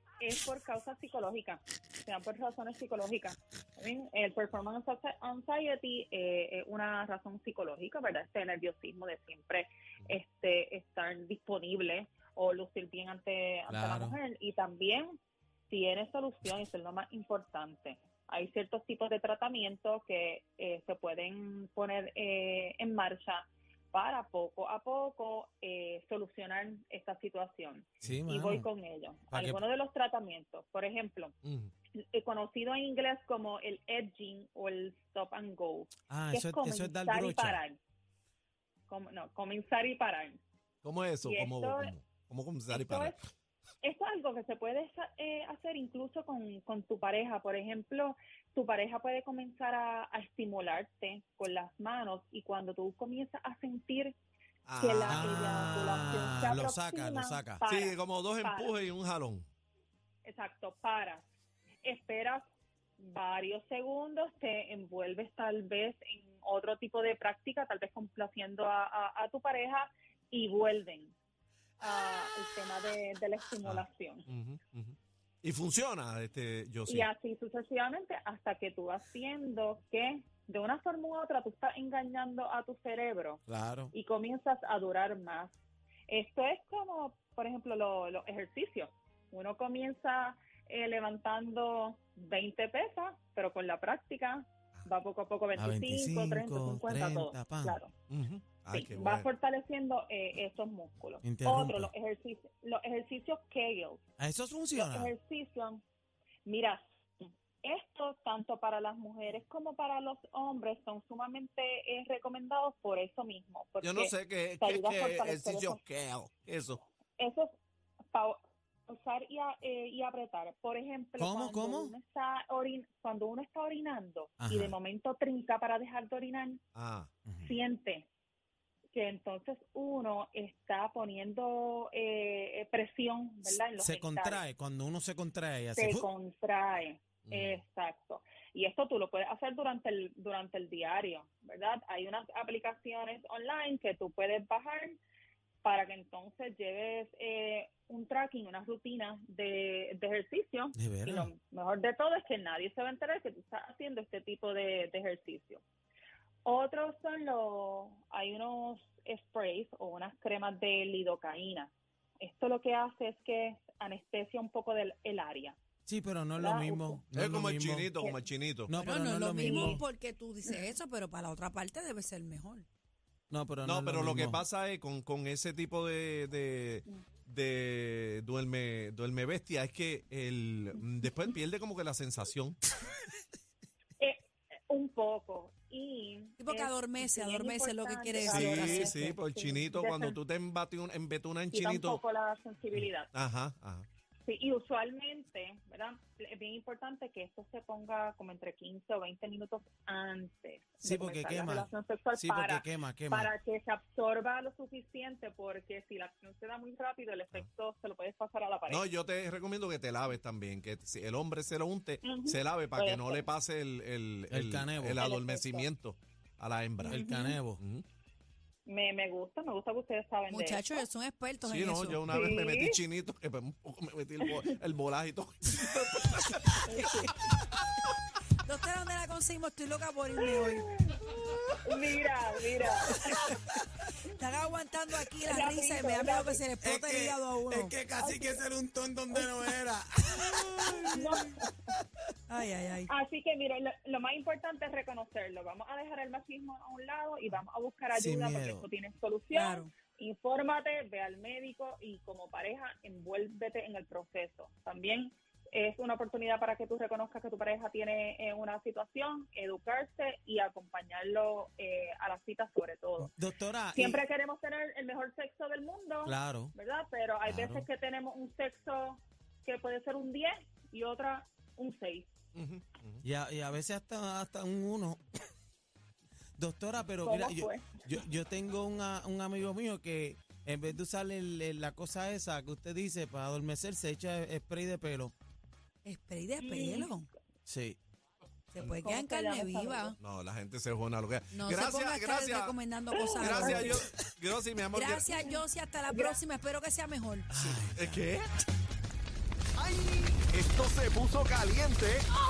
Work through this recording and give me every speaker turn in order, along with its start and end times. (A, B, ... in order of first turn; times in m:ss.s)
0:00.2-0:15.1 A
0:13.7-0:14.2 B
0:15.7-0:31.3 A
0:28.0-0:28.7 B
0:29.3-0:29.6 B
0:31.4-0:31.7 C
0:31.9-0:37.8 A
0:36.1-0:37.6 B
0:38.9-0:40.4 A
0:40.8-0:43.1 C
0:41.2-0:41.9 A
0:42.7-0:43.2 A
0:43.8-0:54.1 A
0:54.6-0:55.4 C
0:54.8-0:58.7 A
0:55.1-0:57.6 B
0:57.6-0:59.4 C
1:00.2-1:01.2 A
1:01.8-1:02.4 A
1:03.0-1:11.1 A
1:11.8-1:14.3 A
1:13.6-1:17.1 C
1:16.9-1:23.4 A
1:23.5-1:23.9 B
1:23.9-1:25.5 A
1:26.1-1:37.9 A
1:35.6-1:37.8 B
1:38.1-1:39.3 C
1:38.7-1:44.0 A
1:41.2-1:41.9 B
1:44.2-1:45.1 B
1:44.7-1:45.8 A
1:46.4-1:55.8 A
1:53.8-1:56.8 C
1:57.2-1:57.5 A
1:58.1-2:06.6 A
2:01.2-2:02.0 B
2:04.4-2:04.8 B
2:06.7-2:07.1 C
2:07.4-2:08.1 A
2:08.9-2:14.4 A
2:13.8-2:16.1 B
2:15.8-2:25.0 A
2:17.3-2:17.6 C
2:25.6-2:35.6 A
2:30.8-2:31.3 B
2:36.4-2:45.6 A
2:45.8-2:47.9 B
2:46.4-2:47.0 A
2:47.1-2:48.7 C
2:48.7-2:49.8 B
2:48.7-2:52.6 D
2:49.4-2:49.8 A
2:53.3-2:54.4 B
2:53.6-3:02.6 C
3:04.0-3:10.2 A
3:06.4-3:09.1 D
3:08.3-3:12.0 C
3:11.5-3:13.1 A
3:13.1-3:13.8 C
3:14.2-3:28.8 A
3:20.8-3:23.3 B
3:28.7-3:37.8 C
3:32.0-3:33.3 A
3:34.3-3:35.0 B
3:35.0-3:35.7 A
3:36.8-3:37.6 B
3:36.9-3:37.4 A
3:38.6-3:40.8 A
3:40.3-3:42.2 D
3:41.4-3:47.1 C
3:42.1-3:42.8 A
3:44.2-3:44.6 A
3:46.6-3:47.2 A
3:48.4-3:50.7 D
3:50.4-3:53.2 A
3:52.8-3:53.3 D
3:54.1-3:57.8 D
3:55.3-3:56.4 A
3:56.6-4:01.4 B
3:58.0-3:58.4 A
4:00.9-4:01.5 A
4:02.3-4:02.9 D
4:02.9-4:23.1 A
4:07.9-4:08.6 B
4:09.3-4:09.7 D
4:23.0-4:24.0 B
4:23.7-4:32.1 A
4:26.0-4:26.5 B
4:27.2-4:27.7 B
4:32.3-4:33.0 C
4:33.0-4:35.0 B
4:36.4-4:45.1 B
4:37.0-4:37.9 A
4:45.8-4:47.1 D
4:46.4-4:46.9 A
4:47.4-4:47.8 B
4:48.5-4:50.0 D
4:48.8-4:49.9 A
4:50.0-4:52.6 C
4:51.3-4:53.9 D
4:52.9-4:53.8 A
4:53.1-4:55.1 C
4:54.7-4:57.3 D
4:55.1-4:56.2 A
4:57.3-4:58.0 B
4:57.3-4:58.3 C
4:59.6-5:02.1 E